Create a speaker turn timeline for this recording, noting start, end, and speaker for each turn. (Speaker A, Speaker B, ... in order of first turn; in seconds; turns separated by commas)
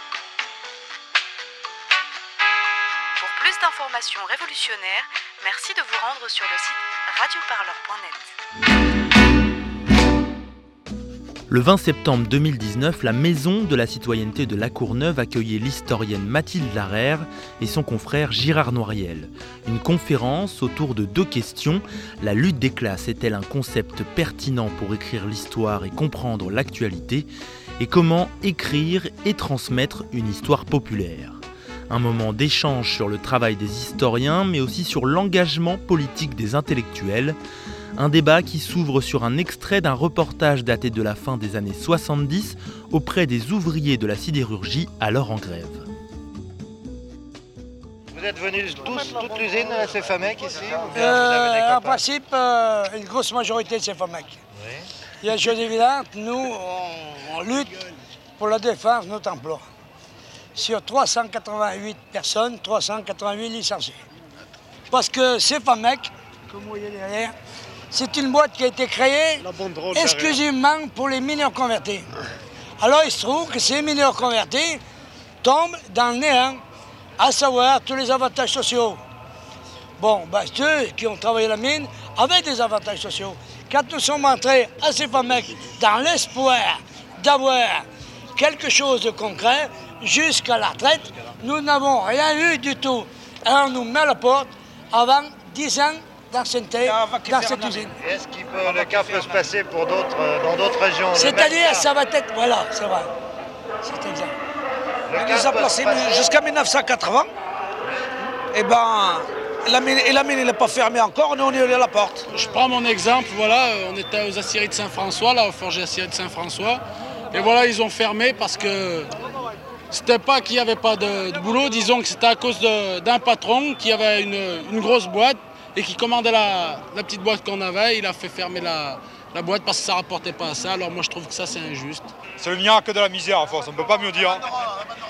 Speaker A: 3.1-8.4, Speaker B: 11.5-37.4, Speaker B: 38.0-45.9, Speaker C: 48.1-51.2, Speaker D: 50.9-54.4, Speaker D: 55.2-59.6, Speaker D: 60.5-64.0, Speaker D: 64.9-67.3, Speaker D: 67.9-72.1, Speaker C: 69.5-70.4, Speaker D: 72.8-74.8, Speaker D: 75.4-76.6, Speaker D: 77.2-79.0, Speaker D: 80.0-98.0, Speaker C: 97.3-101.9, Speaker D: 101.1-103.1, Speaker D: 103.8-104.3, Speaker C: 105.1-106.2, Speaker E: 105.2-107.3, Speaker E: 108.5-112.3, Speaker F: 112.3-119.1, Speaker F: 119.9-132.2, Speaker G: 132.3-134.4